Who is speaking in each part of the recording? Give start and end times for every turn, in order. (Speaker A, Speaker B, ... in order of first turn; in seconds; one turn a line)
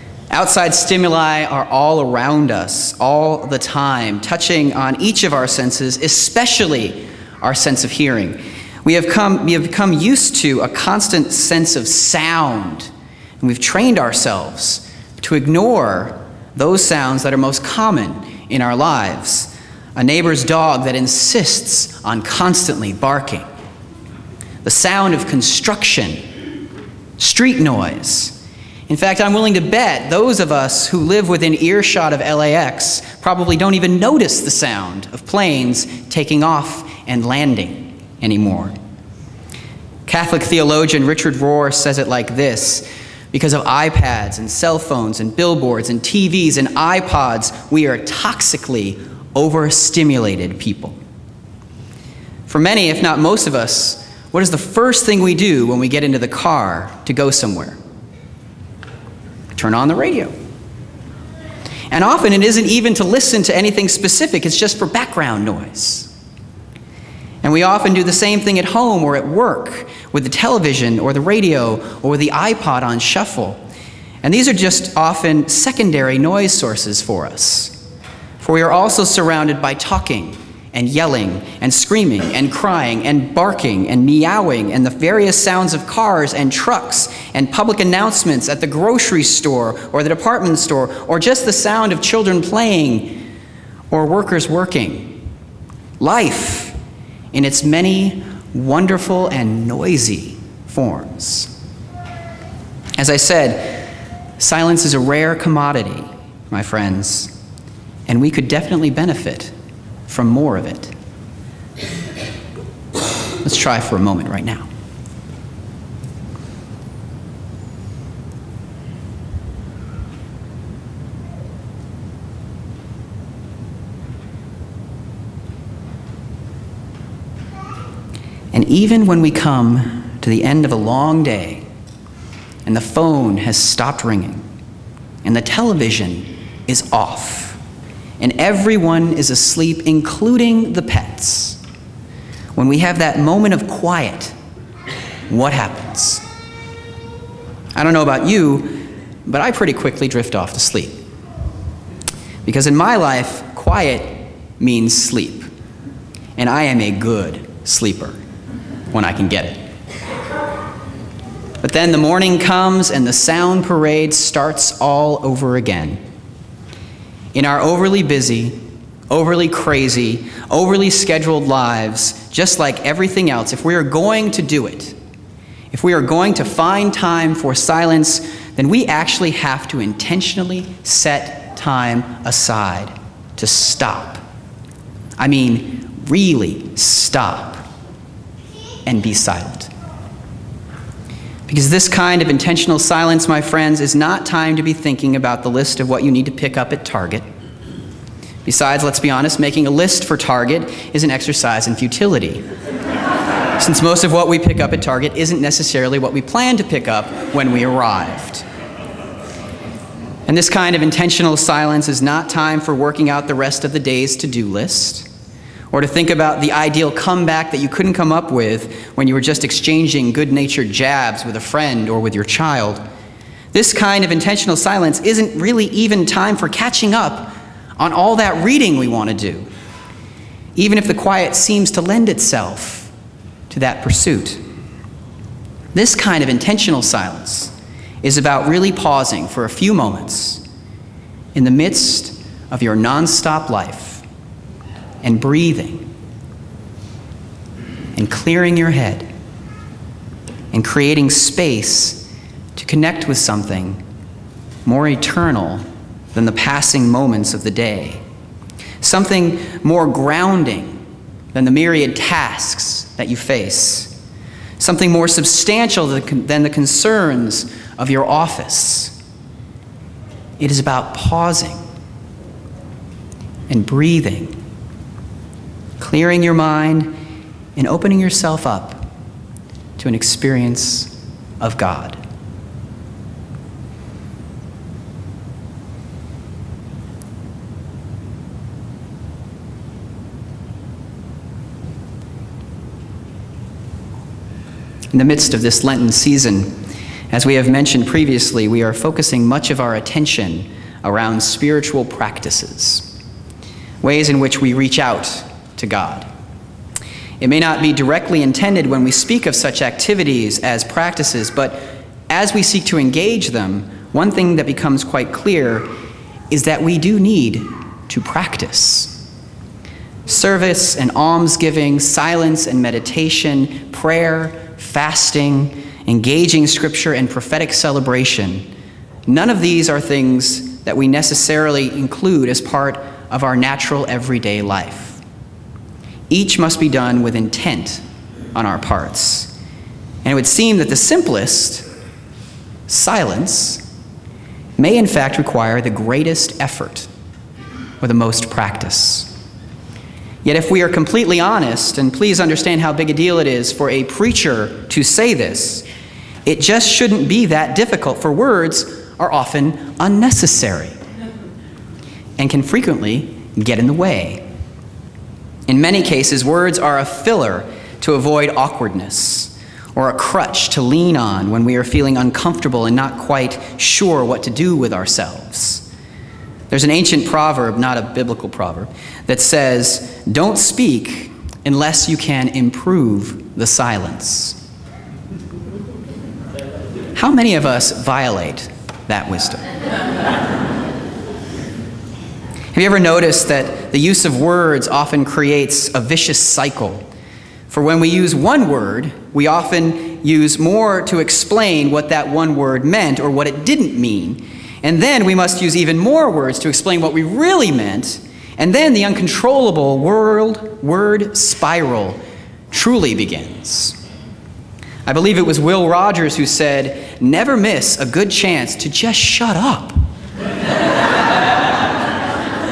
Speaker A: 0.3-23.4
Speaker A: 24.6-26.2
Speaker A: 27.2-28.4
Speaker A: 28.9-38.8
Speaker A: 40.1-51.0
Speaker A: 52.5-57.8
Speaker A: 59.5-60.3
Speaker A: 61.9-66.1
Speaker A: 67.4-73.6
Speaker A: 74.2-77.8
Speaker A: 78.4-93.2
Speaker A: 93.9-95.2
Speaker A: 96.0-96.8
Speaker A: 97.3-101.5
Speaker A: 103.0-103.8
Speaker A: 104.4-107.3
Speaker A: 108.1-109.5
Speaker A: 110.1-110.9
Speaker A: 113.4-114.7
Speaker A: 128.5-131.6
Speaker A: 132.7-134.5
Speaker A: 135.2-137.6
Speaker A: 138.2-141.6
Speaker A: 142.6-144.3
Speaker A: 145.3-146.2
Speaker A: 147.8-151.0
Speaker A: 152.4-155.5
Speaker A: 156.4-158.2
Speaker A: 158.9-159.6
Speaker A: 161.6-166.0
Speaker A: 167.3-168.6
Speaker A: 169.1-175.0
Speaker A: 175.7-184.2
Speaker A: 185.2-187.7
Speaker A: 188.9-189.7
Speaker A: 191.5-197.2
Speaker A: 198.4-202.4
Speaker A: 203.6-208.4
Speaker A: 210.3-215.1
Speaker A: 215.7-222.8
Speaker A: 223.5-229.5
Speaker A: 230.6-232.9
Speaker A: 233.5-234.4
Speaker A: 235.7-240.4
Speaker A: 241.3-244.0
Speaker A: 245.0-245.9
Speaker A: 247.9-249.1
Speaker A: 250.5-253.8
Speaker A: 254.7-255.6
Speaker A: 256.1-258.0
Speaker A: 258.8-260.8
Speaker A: 261.3-263.9
Speaker A: 264.6-268.9
Speaker A: 270.4-271.6
Speaker A: 273.5-274.4
Speaker A: 275.8-276.9
Speaker A: 277.6-278.9
Speaker A: 279.8-282.0
Speaker A: 294.9-296.6
Speaker A: 297.1-302.9
Speaker A: 303.8-306.1
Speaker A: 307.2-315.7
Speaker A: 316.3-319.0
Speaker A: 320.1-328.5
Speaker A: 329.1-335.0
Speaker A: 336.1-337.8
Speaker A: 338.4-339.3
Speaker A: 340.0-341.7
Speaker A: 342.7-343.6
Speaker A: 344.6-346.9
Speaker A: 347.8-349.1
Speaker A: 350.2-355.6
Speaker A: 356.2-360.8
Speaker A: 362.2-364.2
Speaker A: 365.5-375.7
Speaker A: 376.5-384.4
Speaker A: 386.9-389.4
Speaker A: 392.5-396.8
Speaker A: 397.5-412.0
Speaker A: 412.5-413.8
Speaker A: 414.9-419.7